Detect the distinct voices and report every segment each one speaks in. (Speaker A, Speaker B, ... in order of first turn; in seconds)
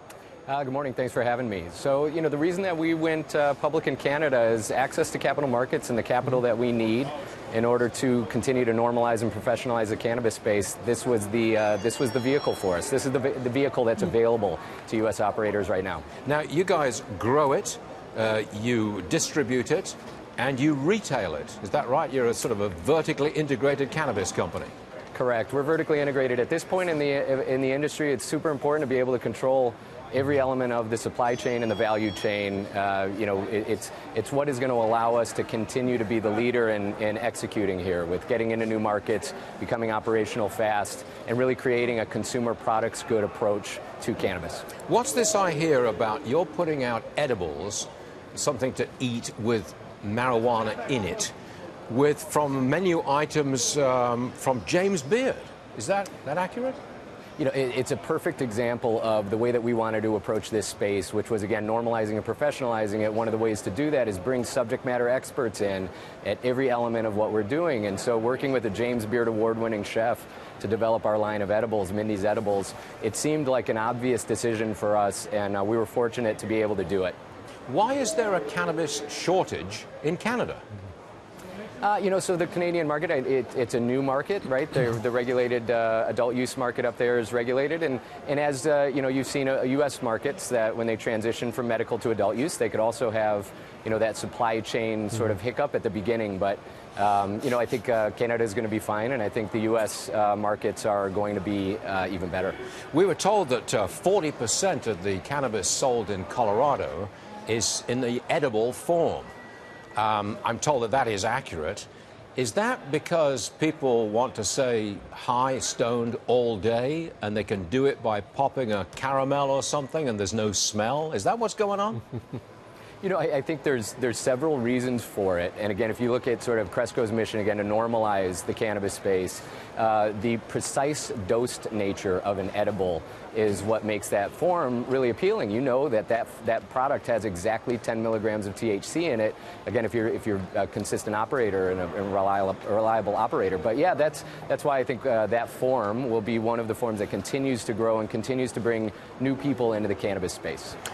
Speaker A: 0.5-16.1, 25.1-44.7, 57.4-77.2, 81.8-102.6, 123.0-150.8
Speaker B: 16.2-24.7, 44.9-51.3, 51.9-56.8, 77.7-80.6, 102.9-109.3, 110.0-122.0